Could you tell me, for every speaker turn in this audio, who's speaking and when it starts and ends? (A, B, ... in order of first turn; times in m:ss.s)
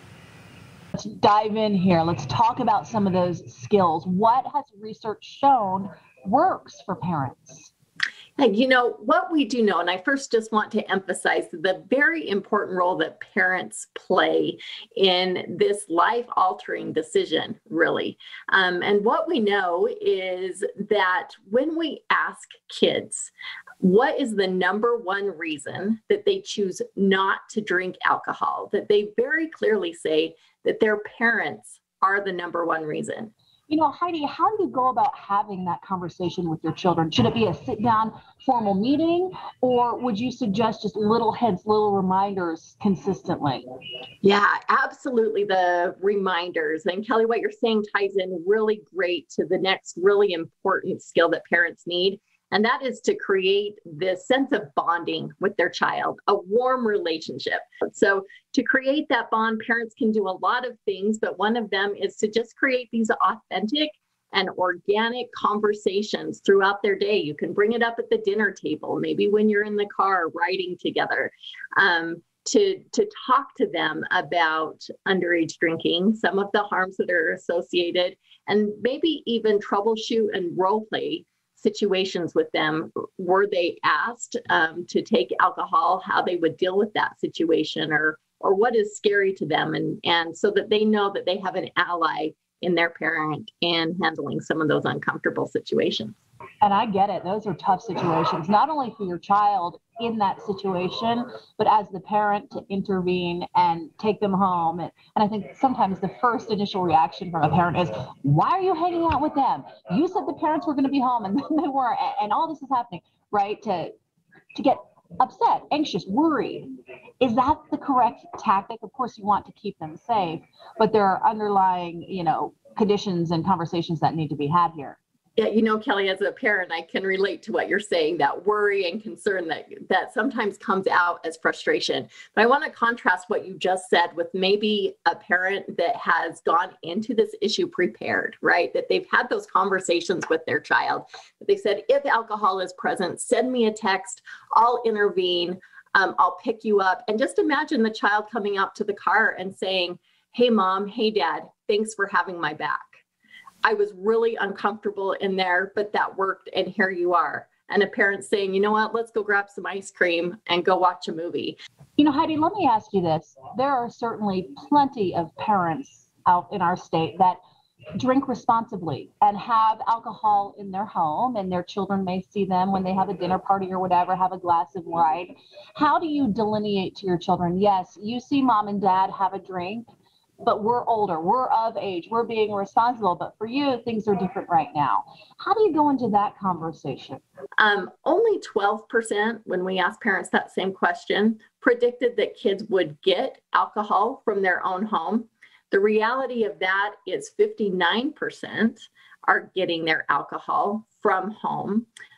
0:00.9-0:07.7 A
0:08.4-0:33.3 B
0:33.7-0:43.6 A
0:44.2-1:36.1 B
1:36.6-1:53.9 A
1:54.5-1:56.7 A
1:57.2-2:05.0 A
2:05.4-2:33.0 B
2:33.6-2:41.6 B
2:42.0-2:47.4 A
2:48.0-2:59.9 A
3:00.4-3:07.2 A
3:07.6-3:21.9 B